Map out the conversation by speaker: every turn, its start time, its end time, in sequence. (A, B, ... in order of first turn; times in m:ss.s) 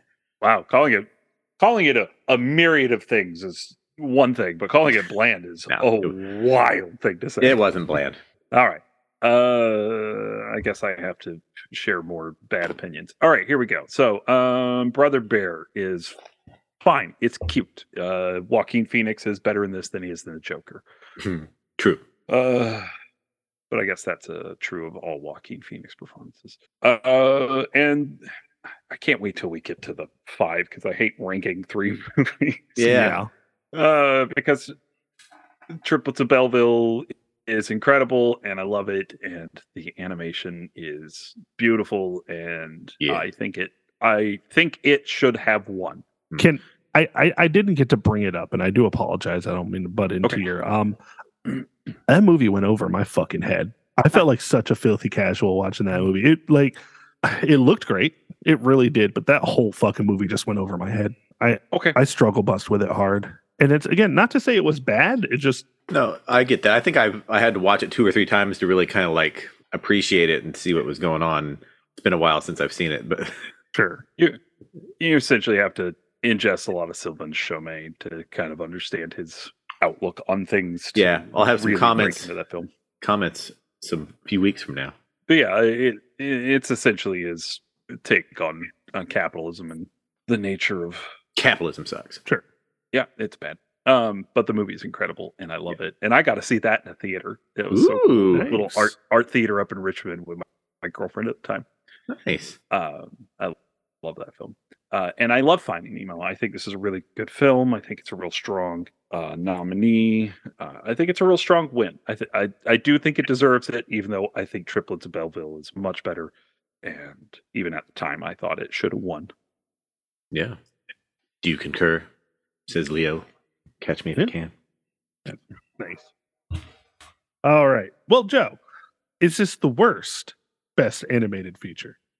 0:00.4-0:01.1 A
0:01.6-0:07.6 A
0:05.7-0:06.1 B
0:07.4-0:08.2 B
0:08.5-0:16.1 A
0:16.8-0:20.8 A
0:21.2-0:22.0 B
0:22.3-0:22.9 A
0:23.7-0:28.2 A
0:28.9-0:32.8 A
0:32.8-0:33.2 B
0:32.8-0:33.3 C
0:33.7-0:34.7 A
0:35.8-0:46.0 A
0:46.4-0:51.0 C
0:52.1-1:05.7 C
1:01.7-1:02.0 A
1:05.9-1:13.4 B
1:13.7-1:14.0 C
1:15.0-1:22.7 A
1:20.9-1:22.3 B
1:23.0-1:24.9 B
1:25.3-1:31.0 A
1:31.4-1:32.2 B
1:32.9-1:41.7 A
1:37.7-1:38.5 B
1:38.3-1:38.9 C
1:42.1-1:42.6 B
1:42.7-1:59.3 A
2:00.3-2:00.6 B
2:01.4-2:02.1 B
2:02.7-2:03.2 B
2:03.8-2:04.5 B
2:05.3-2:06.0 C
2:07.4-2:08.6 C
2:09.2-2:12.0 C